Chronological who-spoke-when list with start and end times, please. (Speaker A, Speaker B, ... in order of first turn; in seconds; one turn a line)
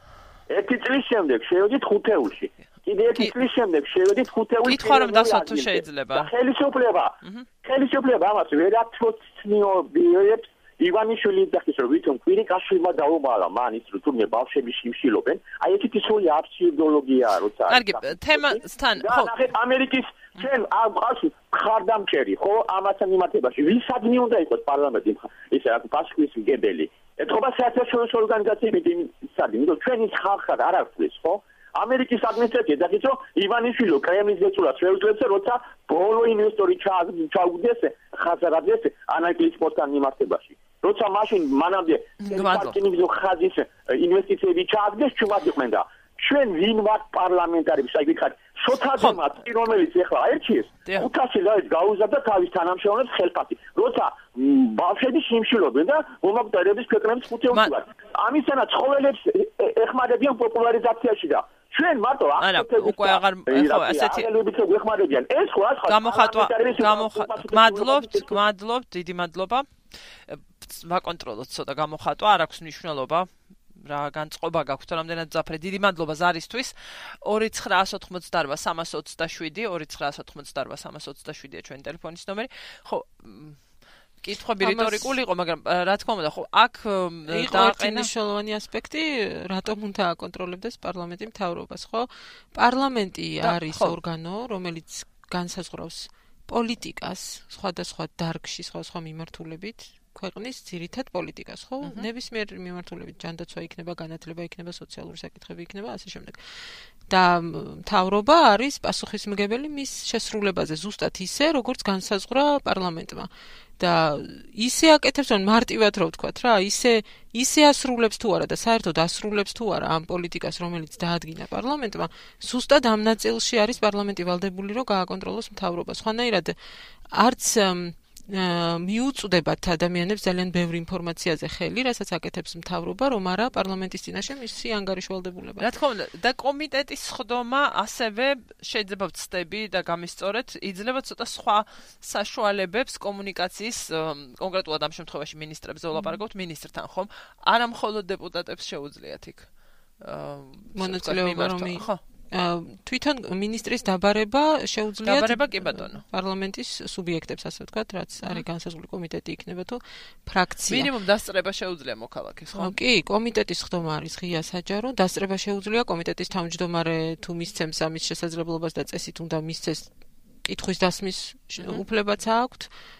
Speaker A: 0.5-68.3
Speaker B: 4.6-6.3
Speaker B: 17.7-19.3
Speaker B: 42.2-42.8
Speaker B: 62.4-64.3
Speaker B: 65.9-69.7
Speaker B: 70.3-83.6
Speaker B: 84.2-88.1
Speaker C: 84.6-85.1
Speaker C: 87.3-106.4
Speaker B: 93.4-94.0
Speaker C: 107.1-126.5
Speaker C: 127.1-135.7
Speaker B: 135.6-149.5
Speaker B: 150.0-152.0
Speaker C: 150.7-160.9
Speaker B: 155.0-156.0
Speaker B: 160.7-162.8
Speaker C: 162.5-169.9
Speaker C: 170.4-172.7
Speaker B: 171.6-171.8